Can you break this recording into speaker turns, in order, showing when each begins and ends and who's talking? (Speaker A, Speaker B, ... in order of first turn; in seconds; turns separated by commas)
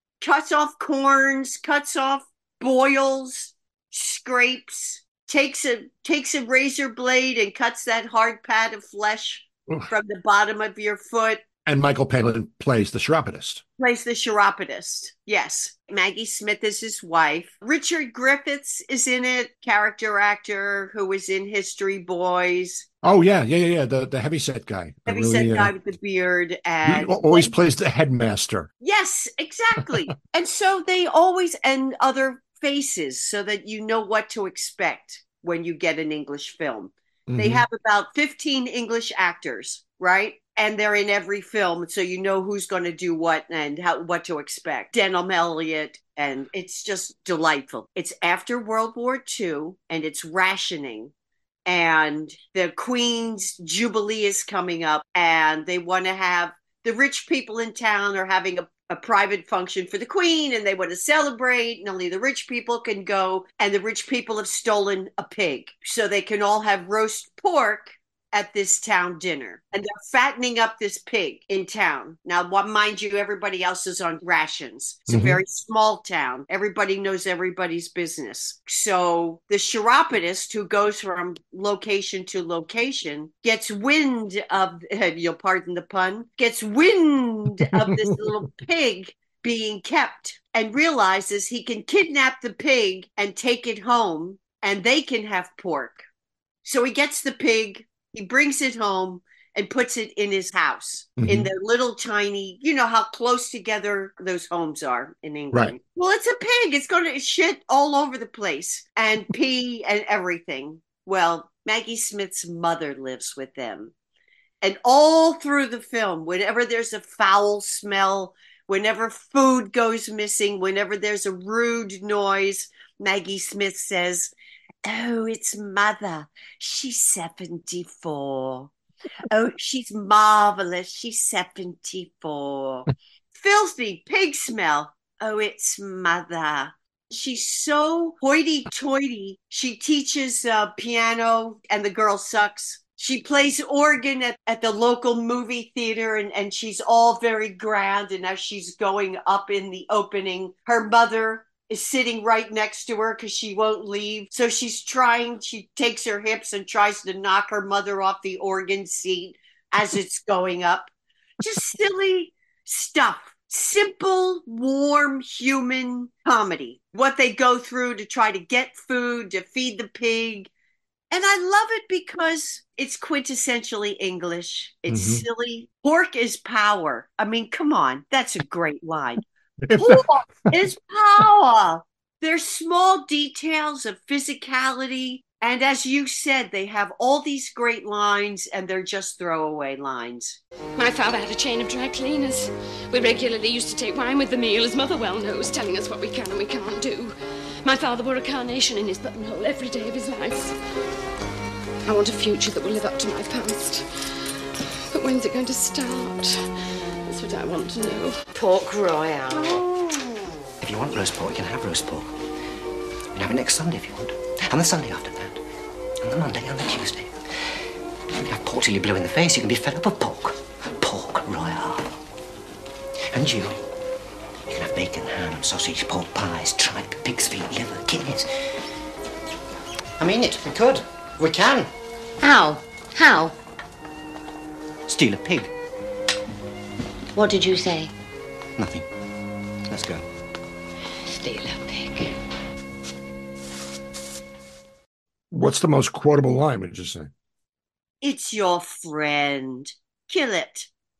Speaker A: 0.2-11.4, Speaker B: 11.7-13.6, Speaker A: 13.8-22.9, Speaker B: 23.0-25.7, Speaker A: 25.1-27.5, Speaker B: 26.8-28.7, Speaker A: 28.8-51.1, Speaker B: 37.3-37.7, Speaker A: 51.7-96.0, Speaker B: 75.1-75.4, Speaker B: 87.7-88.1, Speaker A: 96.6-113.9, Speaker B: 101.2-101.5, Speaker A: 114.6-124.3, Speaker A: 124.8-128.7, Speaker A: 129.3-170.5, Speaker A: 171.1-179.2, Speaker B: 174.9-175.2, Speaker B: 179.6-180.6, Speaker A: 179.8-190.4, Speaker C: 190.8-200.6, Speaker C: 201.8-203.9, Speaker C: 204.9-206.5, Speaker C: 207.1-208.6, Speaker D: 208.3-209.7, Speaker C: 209.3-209.6, Speaker E: 210.6-212.1, Speaker E: 213.1-215.4, Speaker E: 216.0-217.5, Speaker E: 218.2-222.0, Speaker E: 223.1-223.6, Speaker E: 224.5-228.3, Speaker E: 230.0-231.7, Speaker D: 232.2-233.3, Speaker E: 234.9-235.5, Speaker D: 237.2-237.9, Speaker E: 238.6-238.9, Speaker E: 239.7-240.1, Speaker D: 241.2-242.1, Speaker B: 245.3-247.1, Speaker A: 248.0-250.7